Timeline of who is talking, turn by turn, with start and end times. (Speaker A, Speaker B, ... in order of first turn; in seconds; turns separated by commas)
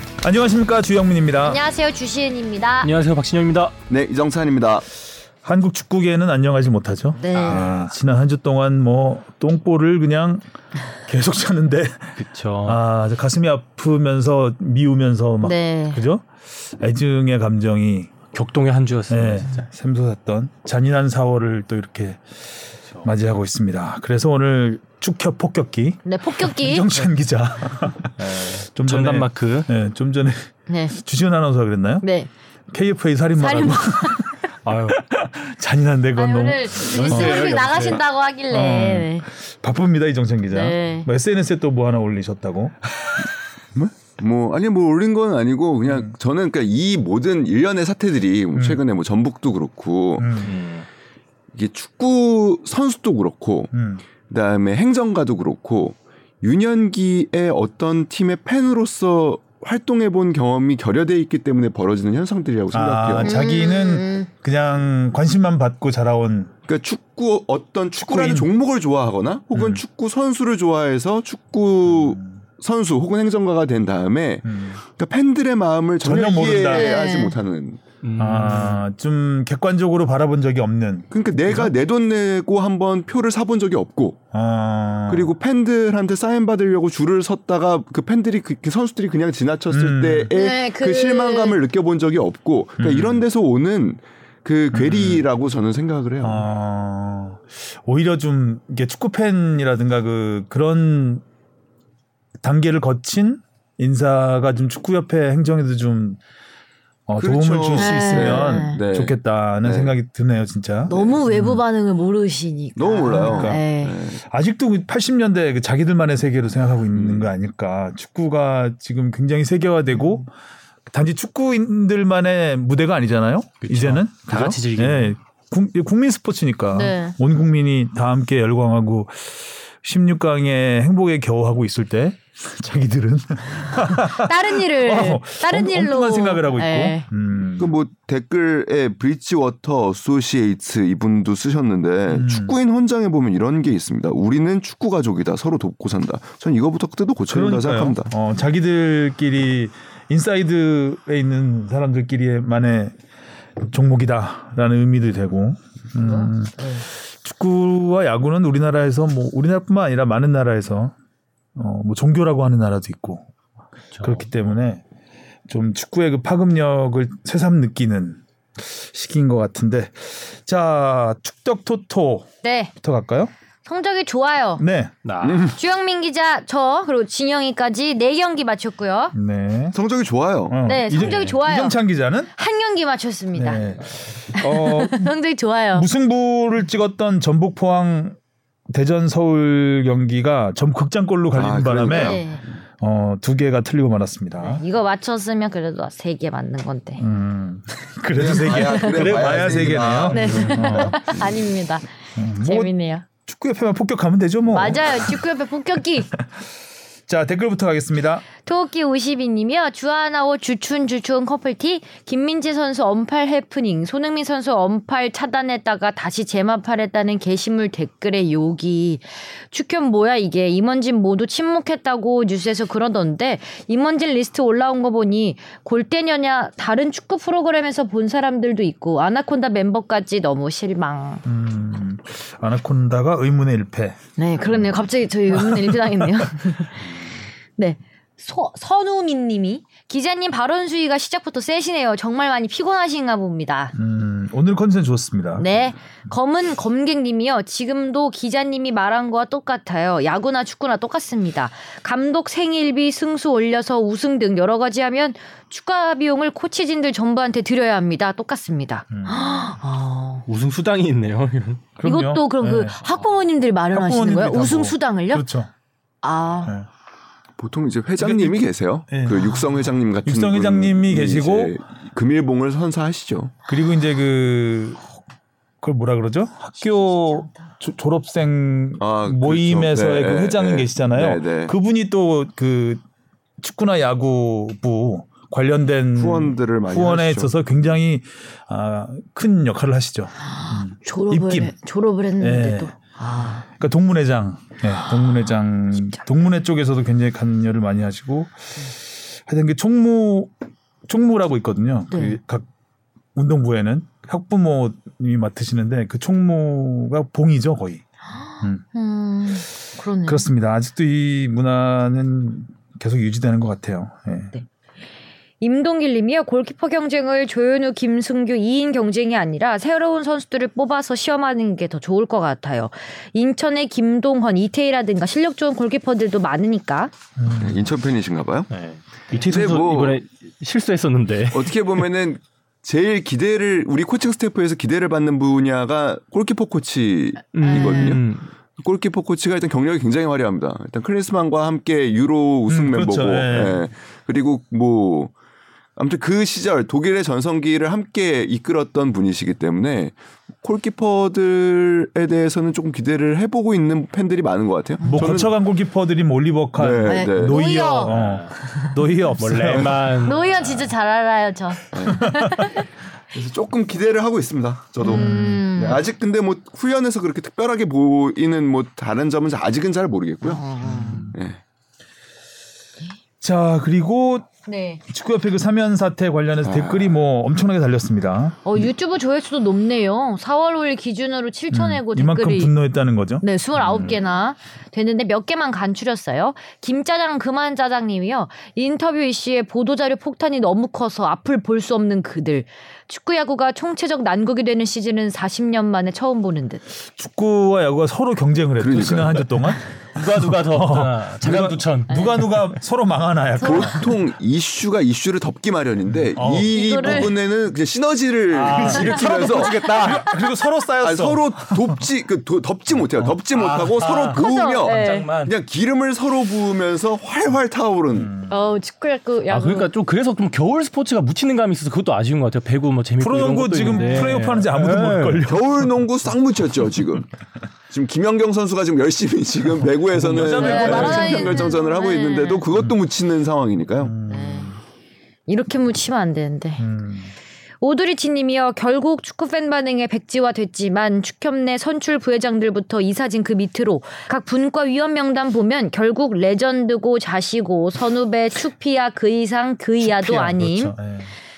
Speaker A: 0.2-1.6, Speaker B: 1.4-2.9, Speaker C: 2.8-3.8, Speaker D: 3.9-4.9, Speaker A: 5.4-10.4, Speaker B: 7.2-7.7, Speaker A: 11.1-18.1, Speaker C: 12.2-12.8, Speaker B: 15.4-16.0, Speaker C: 18.3-19.7, Speaker A: 19.1-22.2, Speaker A: 23.0-32.0, Speaker B: 26.1-26.9, Speaker C: 28.2-29.7, Speaker B: 30.7-30.9, Speaker B: 32.0-32.3, Speaker A: 32.7-37.7, Speaker B: 33.4-34.4, Speaker B: 36.2-39.3, Speaker C: 36.8-38.0, Speaker A: 38.5-42.8, Speaker B: 40.5-41.1, Speaker D: 43.8-50.4, Speaker A: 48.5-48.8, Speaker A: 50.2-50.5, Speaker C: 50.4-50.9, Speaker D: 51.5-53.7, Speaker A: 53.7-54.0, Speaker D: 54.3-63.4, Speaker A: 62.7-66.5, Speaker B: 63.2-64.3, Speaker D: 66.7-77.8, Speaker A: 68.0-68.5, Speaker A: 69.5-69.8, Speaker A: 71.9-72.4, Speaker A: 74.4-74.8, Speaker A: 76.0-76.9, Speaker B: 76.6-77.4, Speaker C: 78.0-78.8, Speaker A: 78.2-81.7, Speaker D: 81.1-84.2, Speaker A: 84.3-85.3, Speaker D: 85.1-96.5, Speaker A: 89.7-90.3, Speaker B: 90.3-91.6, Speaker A: 92.8-93.2, Speaker A: 94.7-95.2, Speaker A: 96.2-101.2, Speaker A: 102.4-106.2, Speaker A: 107.1-111.6, Speaker D: 107.2-109.9, Speaker B: 107.8-108.8, Speaker B: 110.9-114.0, Speaker D: 110.9-111.2, Speaker D: 112.8-114.2, Speaker A: 113.1-113.7, Speaker A: 114.2-120.3, Speaker D: 116.9-117.3, Speaker A: 120.9-137.7, Speaker C: 123.6-125.2, Speaker B: 126.7-127.2, Speaker B: 133.9-137.1, Speaker D: 137.6-148.1, Speaker A: 142.1-142.6, Speaker A: 147.3-152.9, Speaker A: 153.6-160.9, Speaker B: 156.0-156.9, Speaker A: 161.6-163.2, Speaker C: 163.9-164.2, Speaker A: 164.0-164.8, Speaker A: 165.5-172.3, Speaker B: 172.4-172.7, Speaker A: 172.8-173.3, Speaker B: 173.7-174.6, Speaker A: 174.6-174.9, Speaker C: 175.0-175.5, Speaker D: 175.2-175.6, Speaker B: 175.5-179.1, Speaker A: 179.2-179.8, Speaker D: 179.7-181.1, Speaker A: 180.5-182.3, Speaker B: 180.7-181.8, Speaker B: 182.3-183.6, Speaker A: 183.3-185.1, Speaker B: 184.3-185.9, Speaker A: 185.7-188.2, Speaker A: 188.7-192.2, Speaker D: 191.3-192.3, Speaker B: 191.9-192.4, Speaker A: 192.8-194.6, Speaker B: 194.4-197.0, Speaker A: 197.0-201.0, Speaker D: 198.1-201.3, Speaker B: 198.6-199.1, Speaker B: 200.1-201.9, Speaker A: 202.2-202.7, Speaker B: 202.4-203.1, Speaker A: 203.3-205.2, Speaker B: 204.5-206.1, Speaker A: 207.1-208.2, Speaker B: 208.4-231.2, Speaker A: 231.2-234.0, Speaker B: 234.2-237.0, Speaker A: 235.3-236.1, Speaker B: 237.6-243.8, Speaker A: 243.8-245.5, Speaker B: 245.4-260.2, Speaker A: 258.9-259.5, Speaker C: 260.3-261.7, Speaker A: 261.8-262.8, Speaker B: 261.8-265.2, Speaker A: 263.7-265.5, Speaker B: 266.0-266.6, Speaker D: 267.4-273.3, Speaker A: 268.0-269.4, Speaker A: 270.0-271.5, Speaker A: 273.5-275.0, Speaker A: 275.6-282.8, Speaker B: 276.6-277.5, Speaker D: 278.8-281.5, Speaker A: 283.4-291.5, Speaker D: 286.0-287.3, Speaker B: 290.2-293.4, Speaker A: 292.2-292.7, Speaker A: 293.4-298.3, Speaker A: 299.2-300.3, Speaker A: 300.9-302.5, Speaker B: 301.9-302.2, Speaker A: 303.1-307.8, Speaker B: 308.1-310.3, Speaker A: 310.1-314.3, Speaker B: 315.4-326.9, Speaker A: 327.2-327.6, Speaker D: 327.3-328.5, Speaker C: 328.5-331.8, Speaker D: 329.2-330.0, Speaker D: 331.3-338.0, Speaker C: 337.3-338.3, Speaker B: 337.4-338.0, Speaker D: 338.6-345.1, Speaker A: 342.5-343.6, Speaker D: 345.8-355.3, Speaker B: 354.8-355.2, Speaker A: 354.9-360.2, Speaker D: 356.6-357.4, Speaker B: 356.9-358.7, Speaker C: 357.9-358.3, Speaker C: 359.2-360.7, Speaker B: 360.0-362.7, Speaker D: 361.7-362.2, Speaker A: 362.0-362.4, Speaker D: 363.1-370.4, Speaker A: 364.8-365.5, Speaker B: 364.8-365.8, Speaker B: 370.2-371.1, Speaker A: 370.6-371.1, Speaker D: 371.0-371.4, Speaker A: 373.2-374.3, Speaker B: 374.5-374.8, Speaker A: 374.9-378.5, Speaker D: 376.4-377.0, Speaker B: 378.4-382.5, Speaker A: 381.5-383.9, Speaker B: 383.2-396.6, Speaker A: 396.9-399.7, Speaker D: 398.6-399.3, Speaker C: 399.9-402.5, Speaker A: 400.2-403.9, Speaker B: 401.9-402.2, Speaker B: 403.4-403.8, Speaker D: 403.4-409.8, Speaker A: 405.9-407.1, Speaker B: 406.4-407.2, Speaker C: 408.3-410.2, Speaker A: 408.4-411.8, Speaker D: 410.8-418.1, Speaker C: 413.3-415.3, Speaker B: 414.1-415.1, Speaker A: 417.9-418.4, Speaker B: 418.3-419.7, Speaker C: 419.3-425.3, Speaker A: 423.0-425.7, Speaker D: 425.3-427.1, Speaker D: 427.7-433.9, Speaker A: 429.9-431.5, Speaker B: 430.3-432.5, Speaker A: 433.8-434.6, Speaker B: 434.1-434.5, Speaker B: 435.3-436.6, Speaker A: 436.6-437.1, Speaker B: 437.6-450.8, Speaker A: 449.8-451.1